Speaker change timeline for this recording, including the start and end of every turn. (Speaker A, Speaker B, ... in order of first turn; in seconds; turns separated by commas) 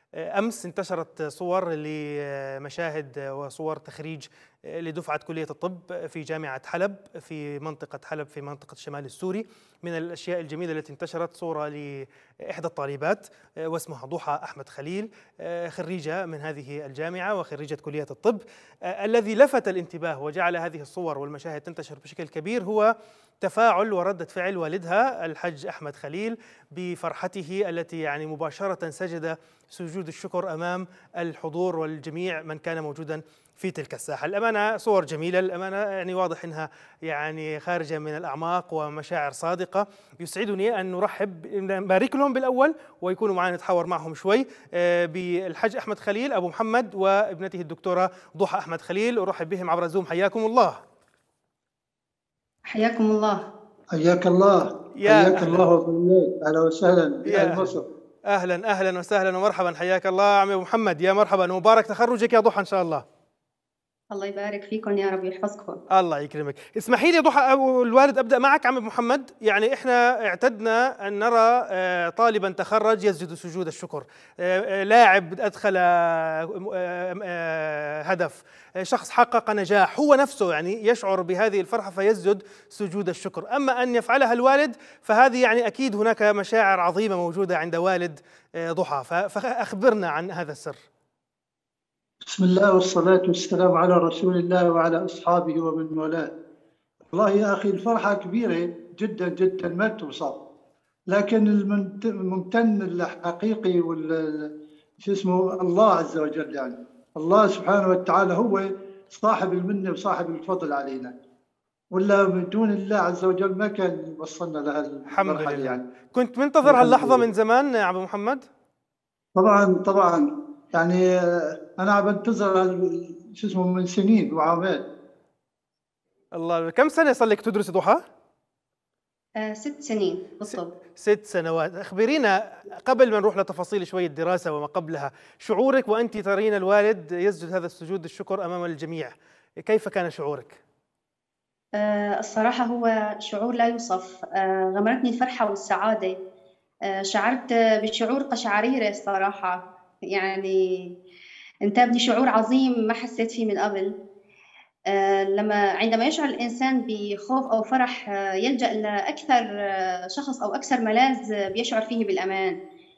Speaker A: 0.2-50.8, Speaker B: 52.7-53.5, Speaker C: 53.9-57.9, Speaker A: 55.0-55.7, Speaker A: 57.2-57.8, Speaker A: 58.3-63.0, Speaker B: 64.1-65.8, Speaker A: 65.9-90.8, Speaker C: 92.3-96.3, Speaker C: 97.1-100.4, Speaker C: 101.1-104.5, Speaker C: 105.0-111.1, Speaker C: 111.9-115.8, Speaker A: 115.1-118.5, Speaker C: 116.6-117.3, Speaker C: 119.4-124.8, Speaker A: 126.3-128.0, Speaker B: 129.4-130.7, Speaker A: 131.0-139.1, Speaker A: 139.6-140.6, Speaker B: 141.8-146.2, Speaker B: 146.9-149.6, Speaker B: 150.1-150.9, Speaker B: 151.7-153.9, Speaker B: 154.9-162.6